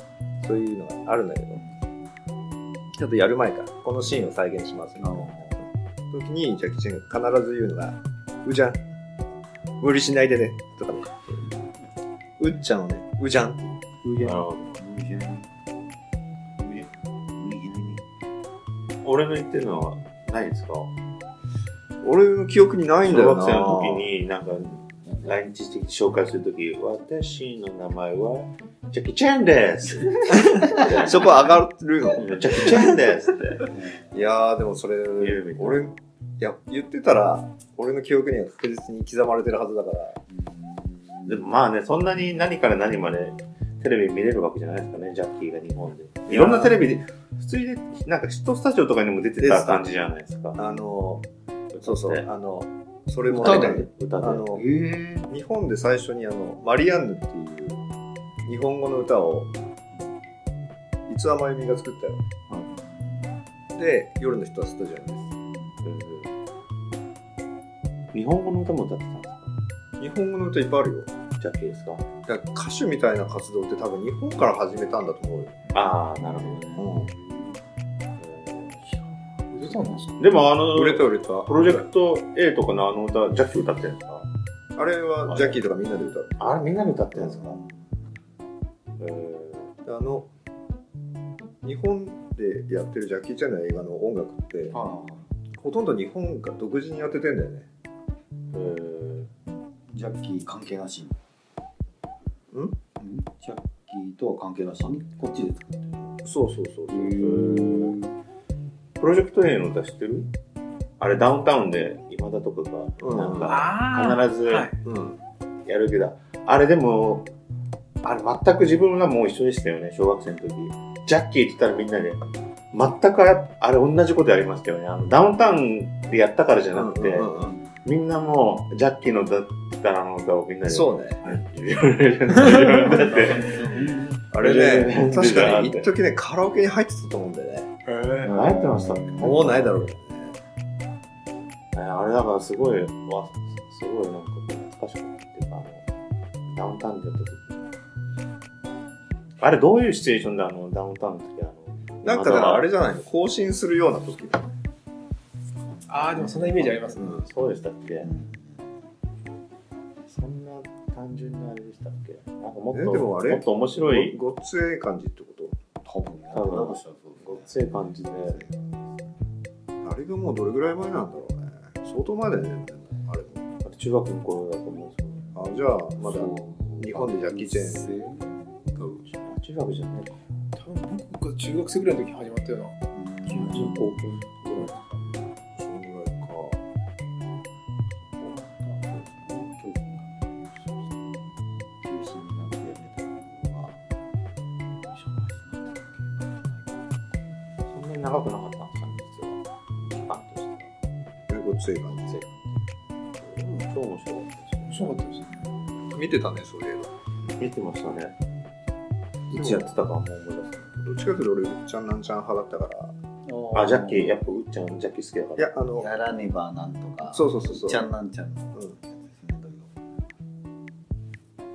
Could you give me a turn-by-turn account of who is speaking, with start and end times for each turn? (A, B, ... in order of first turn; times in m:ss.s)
0:00.4-0:01.6 A
0:02.9-0:05.3 A
0:05.0-0:05.6 B
0:06.1-0:08.8 A
0:09.8-0:11.5 A
0:12.4-0:13.7 A
0:14.1-0:15.5 B
0:14.2-0:14.8 C
0:16.6-0:18.0 B
0:19.0-0:20.9 C
0:22.0-0:24.0 A
0:23.0-0:31.4 C
0:30.6-0:33.0 A
0:32.2-0:33.7 C
0:33.6-0:34.2 B
0:34.1-0:40.2 A
0:35.2-0:35.9 C
0:40.3-0:41.5 B
0:41.2-0:50.6 C
0:46.3-0:46.8 A
0:49.4-0:49.8 A
0:50.6-0:51.2 A
0:51.7-0:52.2 C
0:51.8-0:54.6 A
0:53.2-0:53.9 B
0:53.4-0:54.6 C
0:54.5-0:55.3 B
0:55.3-0:57.8 A
0:58.4-0:59.5 A
1:01.1-1:02.2 A
1:02.7-1:03.3 B
1:03.7-1:05.3 A
1:05.8-1:06.3 C
1:08.1-1:09.5 C
1:10.0-1:11.1 A
1:11.4-1:12.0 C
1:12.3-1:15.6 A
1:15.7-1:16.9 C
1:16.2-1:17.6 B
1:16.8-1:17.1 A
1:18.2-1:18.8 C
1:19.5-1:20.2 D
1:19.7-1:24.3 C
1:20.7-1:21.5 A
1:24.8-1:27.3 A
1:25.3-1:25.6 C
1:26.4-1:27.6 C
1:27.2-1:27.8 B
1:29.0-1:29.7 C
1:29.8-1:30.3 A
1:31.6-1:34.8 A
1:34.7-1:35.3 B
1:35.6-1:37.7 A
1:38.5-1:39.3 C
1:39.9-1:41.2 B
1:42.5-1:42.8 A
1:43.0-1:46.2 B
1:46.2-1:47.3 A
1:46.9-1:48.1 B
1:47.2-1:48.0 C
1:49.0-1:50.3 C
1:51.0-1:54.7 C
1:53.0-1:53.6 A
1:53.4-1:54.7 D
1:54.8-1:55.2 A
1:55.7-1:57.3 C
1:58.0-2:07.3 C
2:06.7-2:07.6 A
2:07.8-2:13.6 C
2:10.7-2:11.4 A
2:12.7-2:14.2 B
2:14.3-2:17.7 A
2:14.4-2:15.9 C
2:17.9-2:18.6 D
2:18.2-2:19.5 B
2:18.3-2:19.9 C
2:19.2-2:20.4 A
2:21.7-2:25.8 C
2:26.5-2:27.6 C
2:29.4-2:32.6 C
2:32.0-2:34.5 A
2:35.7-2:37.3 B
2:35.9-2:37.2 D
2:37.0-2:37.2 A
2:37.2-2:38.1 C
2:38.0-2:38.7 B
2:40.1-2:44.2 C
2:42.7-2:45.6 A
2:45.8-2:48.8 B
2:46.3-2:48.4 C
2:49.8-2:53.4 A
2:53.6-2:55.2 C
2:55.3-2:58.0 A
2:56.0-2:58.6 B
2:58.8-2:59.0 A
2:59.1-3:00.2 C
3:00.6-3:02.8 D
3:02.9-3:03.9 B
3:03.3-3:03.8 D
3:03.3-3:05.0 C
3:05.6-3:06.6 A
3:08.2-3:08.9 C
3:08.8-3:10.3 B
3:11.8-3:13.8 B
3:14.8-3:16.8 B
3:17.7-3:19.4 C
3:20.0-3:20.7 C
3:21.3-3:22.1 A
3:22.0-3:22.5 C
3:23.2-3:25.1 C
3:24.6-3:25.3 D
3:25.8-3:26.9 A
3:27.4-3:28.2 C
3:29.3-3:30.8 C
3:29.3-3:29.7 A
3:30.8-3:32.9 A
3:33.3-3:34.1 B
3:33.5-3:35.5 C
3:35.4-3:35.9 A
3:35.8-3:39.7 B
3:37.1-3:37.8 A